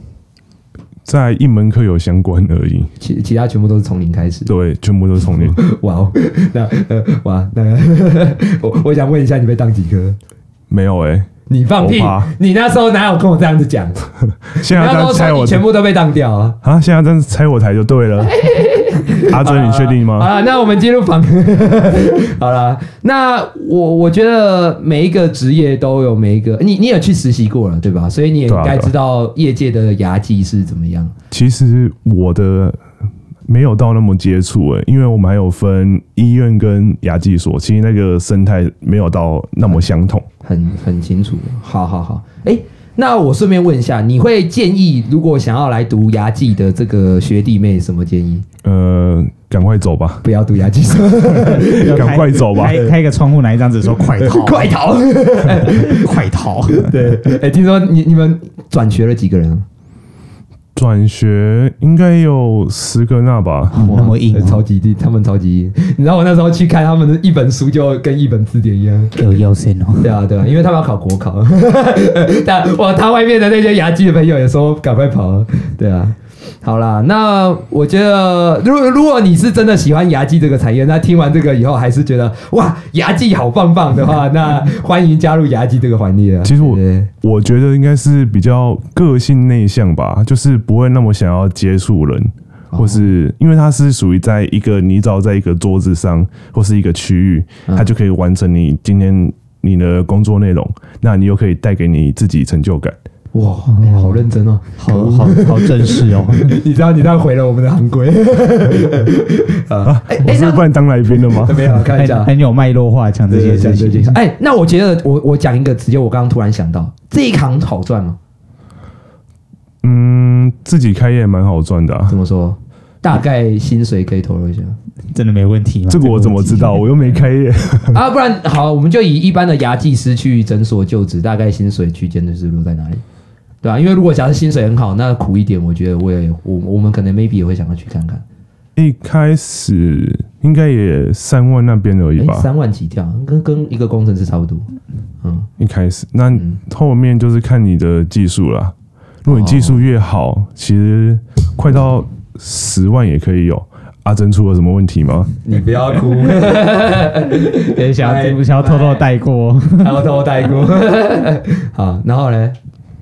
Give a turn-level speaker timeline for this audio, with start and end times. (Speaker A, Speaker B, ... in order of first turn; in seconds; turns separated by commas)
Speaker A: 1.1-2.9, Speaker B: 3.0-4.5, Speaker A: 4.5-5.6, Speaker B: 5.3-10.2, Speaker A: 10.7-11.3, Speaker B: 11.5-14.0, Speaker A: 11.8-12.3, Speaker A: 14.5-15.7, Speaker B: 14.6-16.6, Speaker A: 16.6-18.4, Speaker B: 18.2-31.1, Speaker A: 19.3-20.3, Speaker A: 28.5-28.9, Speaker A: 31.3-32.8, Speaker A: 33.5-40.2, Speaker B: 40.4-48.4, Speaker A: 48.6-50.2, Speaker B: 50.2-52.9, Speaker C: 51.5-54.7, Speaker A: 51.6-52.8, Speaker B: 54.2-56.1, Speaker C: 55.6-57.0, Speaker B: 56.7-59.6, Speaker A: 60.8-63.8, Speaker C: 63.7-64.6, Speaker B: 63.8-69.2, Speaker C: 69.2-70.1, Speaker B: 70.0-87.1, Speaker A: 86.4-103.0, Speaker B: 92.7-93.1, Speaker B: 103.3-110.7, Speaker C: 103.7-106.6, Speaker A: 109.8-111.7, Speaker B: 111.3-112.3, Speaker C: 111.9-114.2, Speaker B: 113.3-118.2, Speaker A: 119.8-122.1, Speaker B: 122.1-124.7, Speaker C: 125.1-126.8, Speaker A: 125.9-128.0, Speaker B: 127.9-133.0, Speaker B: 133.6-138.2, Speaker A: 138.8-142.5, Speaker B: 142.2-144.7, Speaker B: 145.2-145.5, Speaker A: 145.6-155.4, Speaker B: 146.3-146.6, Speaker B: 149.3-149.8, Speaker B: 155.4-159.0, Speaker C: 157.7-160.0, Speaker B: 159.8-162.6